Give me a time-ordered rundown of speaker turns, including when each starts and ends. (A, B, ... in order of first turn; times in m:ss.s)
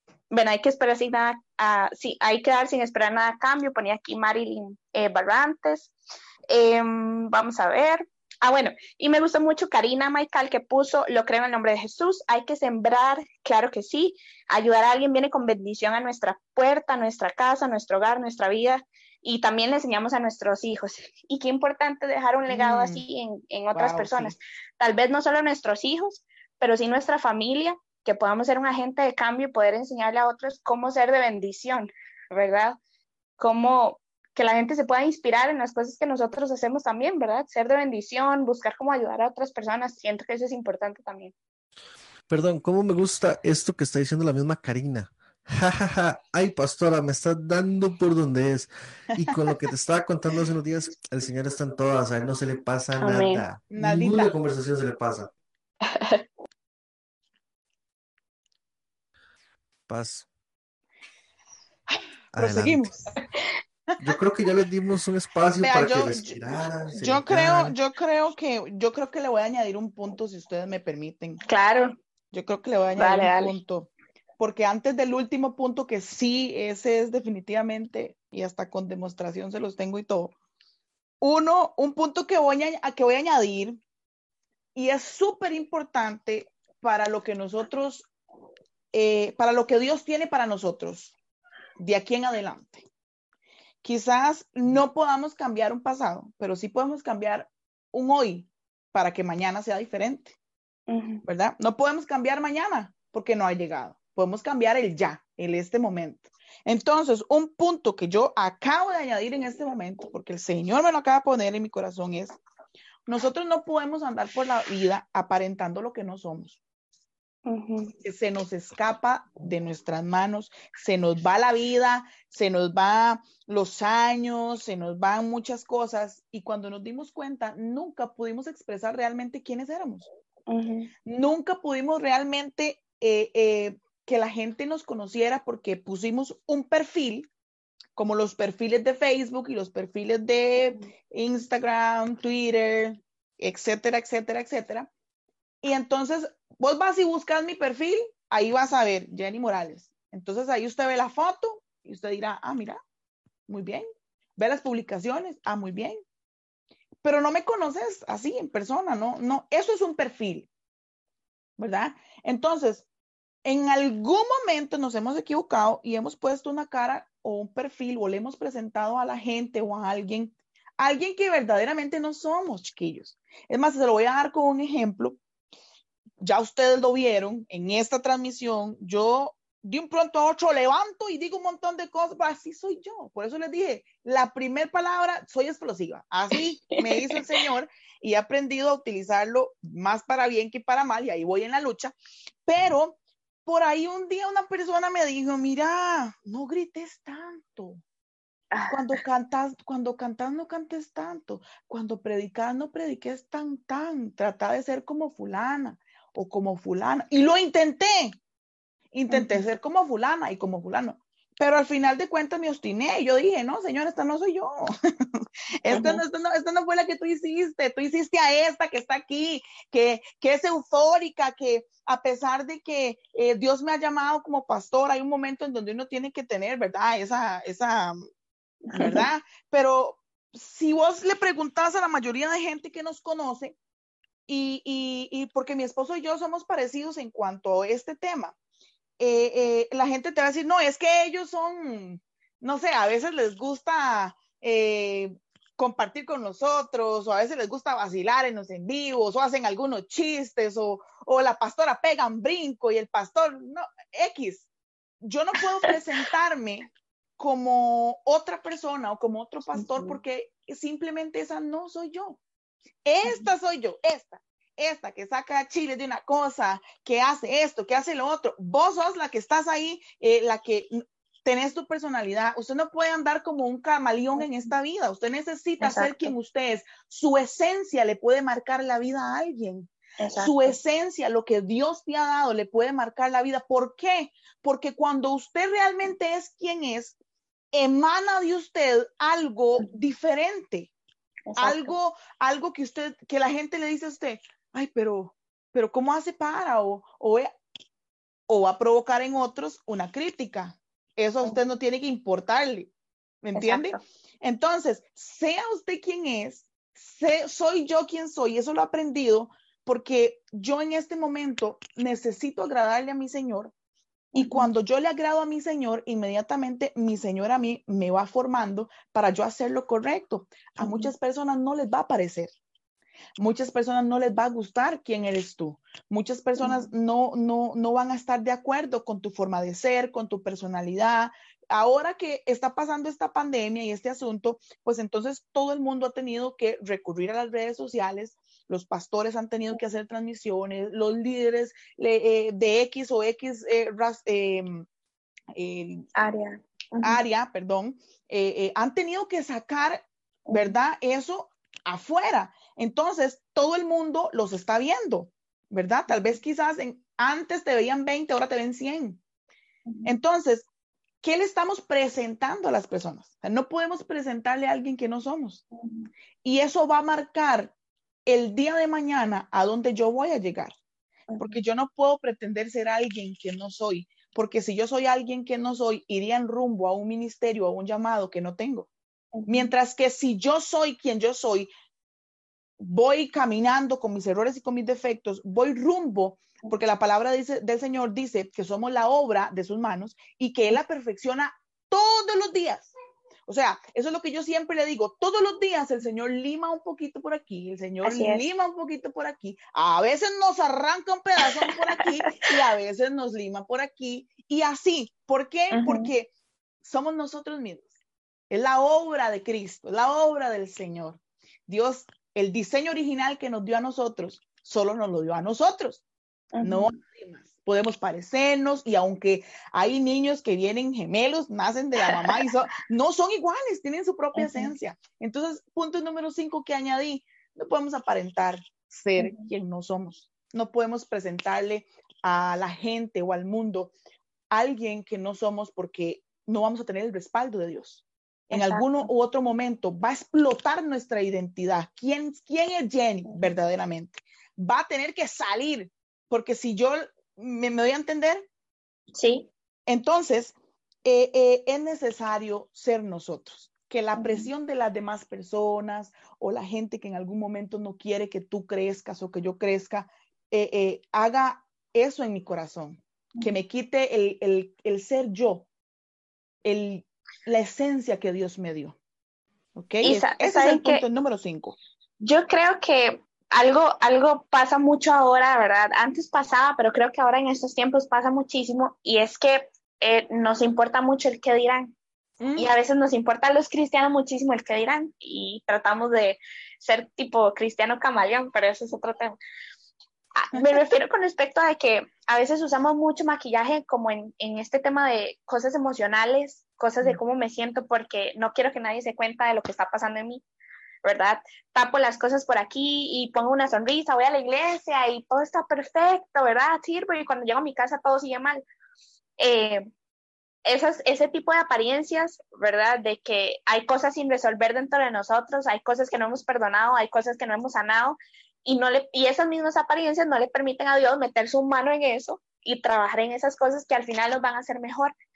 0:00.3-0:05.9 A
0:06.5-0:32.8 A
0:22.5-0:23.0 B
0:23.7-0:24.4 B
0:33.4-0:41.3 A
0:42.3-0:55.3 C
0:53.0-0:53.4 A
0:53.7-0:54.3 B
0:55.8-0:56.2 A
0:59.9-1:00.3 C
1:02.3-1:02.9 C
1:02.4-1:03.1 B
1:04.0-1:07.7 C
1:05.6-1:06.4 B
1:07.0-1:11.4 B
1:11.4-1:12.0 A
1:12.3-1:20.3 B
1:13.0-1:13.6 A
1:21.2-1:23.8 B
1:24.8-1:28.1 B
1:28.9-1:31.1 B
1:31.8-1:32.8 B
1:33.8-1:40.4 B
1:40.9-1:41.2 A
1:41.3-1:52.4 B
1:53.1-1:56.6 B
1:57.5-1:58.0 A
1:58.0-2:10.1 B
2:10.5-2:10.9 A
2:11.0-2:17.3 B
2:18.0-2:24.9 B
2:25.6-2:32.8 B
2:33.5-2:36.0 B
2:37.0-2:40.5 B
2:41.6-2:42.9 B
2:43.4-2:55.2 B
2:56.2-3:11.9 B
3:06.8-3:07.4 A
3:12.5-3:17.8 B
3:18.5-3:18.8 A
3:18.7-3:28.2 B
3:28.9-3:48.0 B
3:29.1-3:29.4 A
3:35.7-3:36.0 A
3:48.7-3:49.0 A
3:48.7-3:53.6 B
3:54.3-3:58.4 B
3:59.0-4:14.5 B
4:15.0-4:22.2 B
4:19.6-4:20.0 A
4:22.8-4:47.0 B
4:35.6-4:36.1 A
4:40.0-4:40.6 A
4:47.5-4:50.7 B
4:51.3-4:51.7 A
4:51.4-4:57.3 B
4:58.3-5:02.7 B
5:03.2-5:13.5 B
5:03.4-5:03.8 A
5:14.1-5:22.3 B
5:14.2-5:14.5 A
5:20.6-5:20.9 A
5:23.2-5:44.7 B
5:26.4-5:26.7 A
5:45.3-5:45.9 B
5:46.0-5:47.0 A
5:46.8-5:59.0 B
5:50.3-5:50.5 A
5:55.9-5:56.2 A
5:59.8-6:00.5 B
6:01.0-6:05.4 B
6:05.6-6:05.9 A
6:06.2-6:07.5 B
6:08.1-6:10.5 B
6:11.1-6:11.4 A
6:11.2-6:18.7 B
6:19.2-6:19.5 A
6:19.3-6:21.5 B
6:22.6-6:32.7 B
6:33.3-6:46.1 B
6:37.8-6:38.2 A
6:45.5-6:45.9 A
6:46.6-6:47.7 B
6:48.3-6:55.8 B
6:56.3-6:56.8 A
6:56.4-7:13.7 B
7:01.8-7:02.2 A
7:04.2-7:04.5 A
7:09.0-7:09.2 A
7:14.3-7:28.3 B
7:18.3-7:18.9 A
7:28.9-7:29.3 A
7:29.7-7:45.5 B
7:34.0-7:34.3 A
7:46.4-7:48.8 B
7:49.6-7:51.6 B
7:49.8-7:50.8 A
7:52.0-8:01.8 A
8:02.2-8:02.5 B
8:02.4-8:09.2 A
8:10.2-8:20.2 A
8:10.3-8:10.6 B
8:20.8-8:28.4 A
8:29.2-8:29.6 A
8:30.4-8:44.9 A